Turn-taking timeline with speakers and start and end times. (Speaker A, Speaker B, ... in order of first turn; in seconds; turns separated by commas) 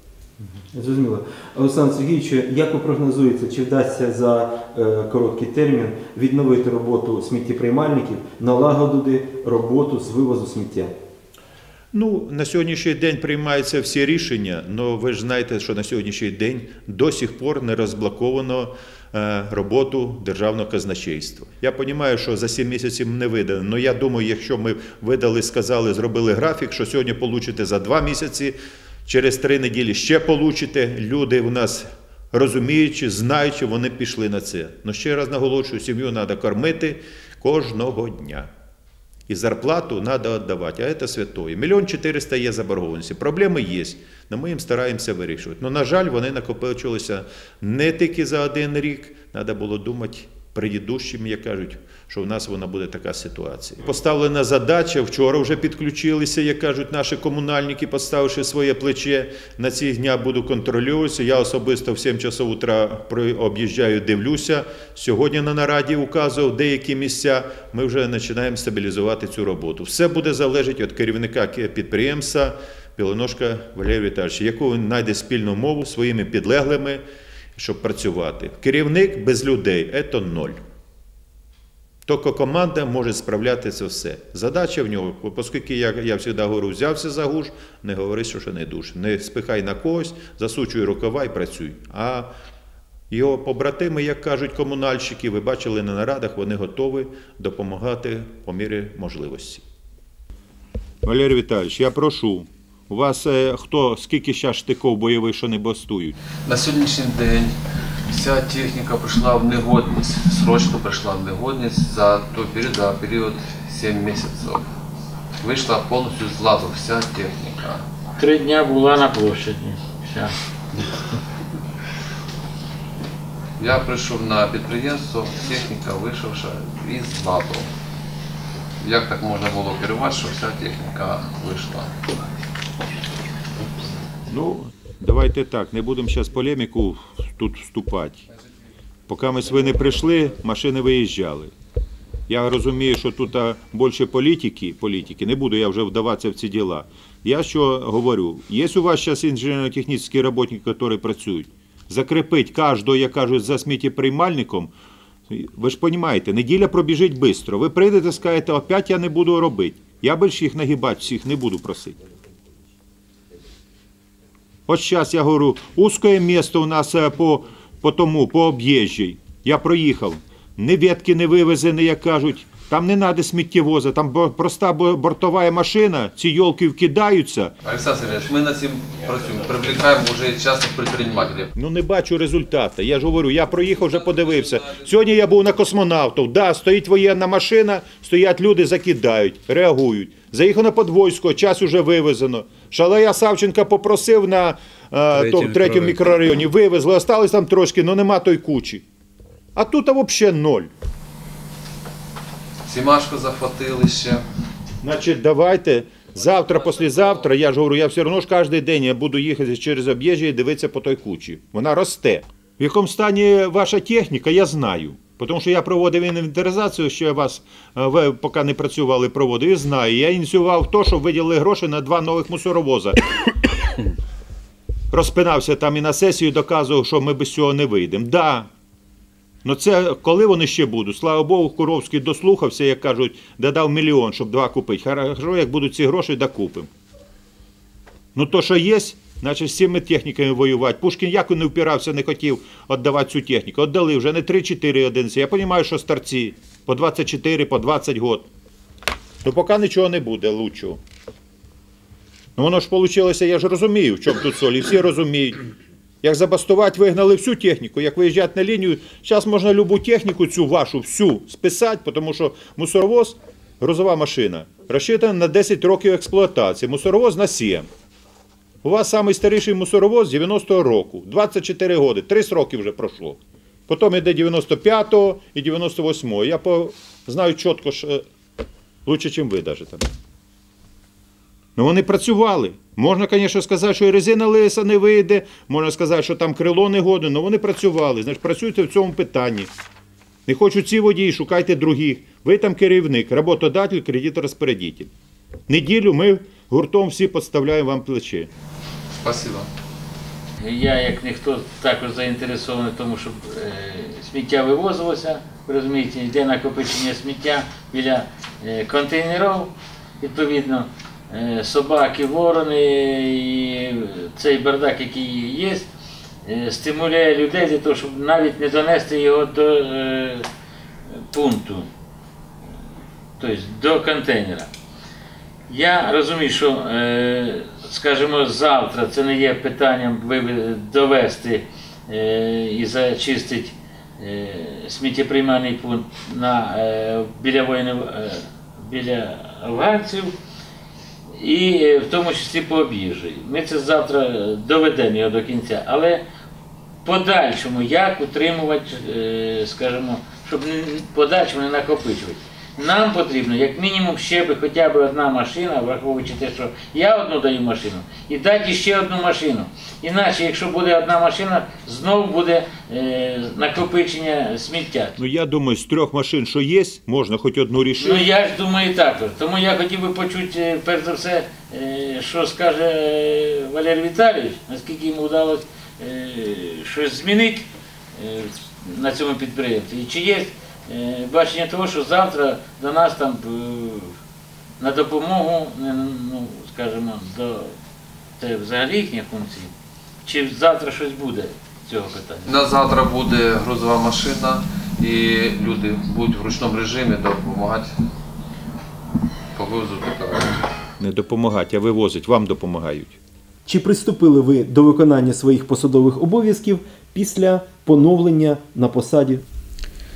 Speaker A: 0.7-10.9, Speaker B: 11.9-28.6, Speaker B: 29.1-38.5, Speaker B: 39.3-77.0, Speaker B: 77.6-80.6, Speaker B: 82.0-92.3, Speaker B: 93.1-99.6, Speaker B: 101.0-106.2, Speaker C: 106.5-107.5, Speaker C: 108.1-114.6, Speaker C: 115.4-117.8, Speaker D: 118.2-120.3, Speaker C: 123.6-127.6, Speaker C: 128.8-131.9, Speaker B: 134.3-138.3, Speaker B: 139.1-141.5, Speaker B: 142.3-154.7, Speaker B: 155.3-162.0, Speaker B: 164.7-177.5, Speaker C: 177.6-181.5, Speaker B: 181.5-198.8, Speaker C: 195.3-195.8, Speaker B: 199.6-200.7, Speaker C: 202.7-204.2, Speaker B: 204.8-223.0, Speaker B: 224.9-228.5, Speaker B: 229.4-236.7, Speaker B: 238.1-248.3, Speaker B: 249.2-250.8, Speaker B: 252.4-255.4, Speaker B: 256.0-267.7, Speaker B: 268.6-278.0, Speaker B: 278.9-279.9, Speaker B: 281.6-289.5, Speaker B: 290.3-294.9, Speaker B: 295.5-298.3, Speaker C: 298.9-299.5, Speaker D: 300.4-315.6, Speaker D: 316.2-320.3, Speaker D: 321.1-321.7, Speaker D: 323.2-324.5, Speaker D: 325.5-340.1, Speaker D: 341.2-346.0, Speaker D: 346.8-365.0, Speaker B: 365.0-368.1, Speaker D: 367.8-383.9, Speaker D: 384.6-387.5, Speaker D: 388.2-389.5, Speaker D: 390.0-392.4, Speaker C: 392.3-397.7, Speaker C: 399.4-400.3, Speaker B: 400.8-403.0, Speaker A: 403.5-409.2